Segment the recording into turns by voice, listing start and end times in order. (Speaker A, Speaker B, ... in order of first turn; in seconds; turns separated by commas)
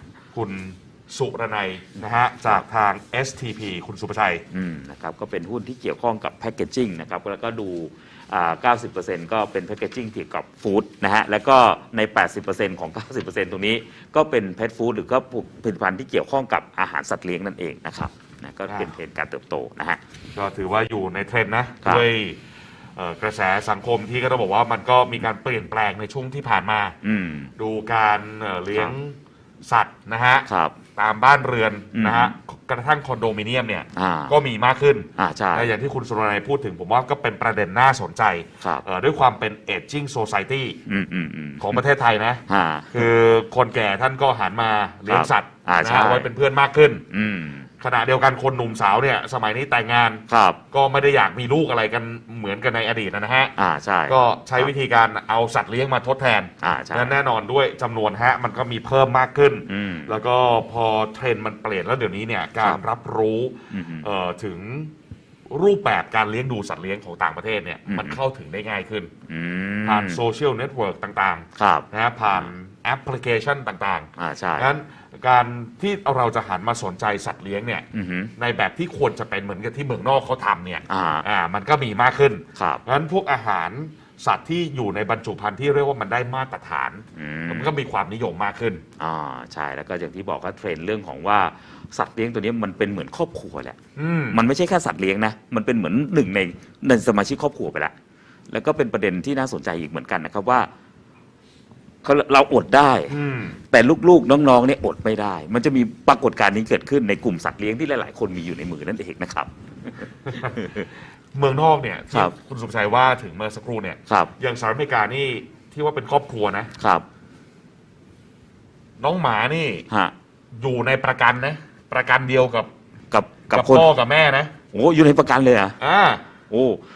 Speaker A: 0.3-4.4, Speaker B: 4.5-20.0, Speaker A: 20.3-22.4, Speaker A: 22.9-26.9, Speaker B: 27.0-27.5, Speaker A: 27.6-40.8, Speaker B: 30.5-30.8, Speaker B: 31.9-32.3, Speaker B: 33.9-34.3, Speaker B: 35.2-35.7, Speaker B: 40.9-41.8, Speaker A: 41.6-42.4, Speaker B: 42.5-43.1, Speaker A: 42.9-47.0, Speaker B: 45.1-46.3, Speaker B: 47.1-47.7, Speaker A: 47.8-53.5, Speaker B: 50.3-50.6, Speaker B: 53.6-54.7, Speaker A: 54.1-64.9, Speaker B: 56.6-57.1, Speaker B: 59.6-60.1, Speaker B: 63.7-64.1, Speaker A: 65.5-69.1, Speaker B: 67.9-68.2, Speaker B: 69.3-70.2, Speaker A: 69.8-77.8, Speaker B: 71.6-72.5, Speaker B: 74.2-74.7, Speaker B: 77.9-78.3, Speaker A: 78.4-88.8, Speaker B: 80.9-81.2, Speaker B: 82.5-82.8, Speaker B: 87.2-87.7, Speaker B: 89.0-93.8, Speaker A: 94.0-94.4, Speaker B: 94.3-97.9, Speaker B: 98.5-100.7, Speaker B: 102.0-103.2, Speaker A: 103.1-103.6, Speaker B: 103.7-110.9, Speaker A: 111.3-116.7, Speaker B: 114.1-114.3, Speaker B: 116.8-117.0, Speaker A: 119.0-119.8, Speaker A: 120.5-122.7, Speaker B: 123.1-123.9, Speaker A: 123.5-124.5, Speaker B: 124.7-125.8, Speaker A: 125.8-126.2, Speaker B: 126.5-126.8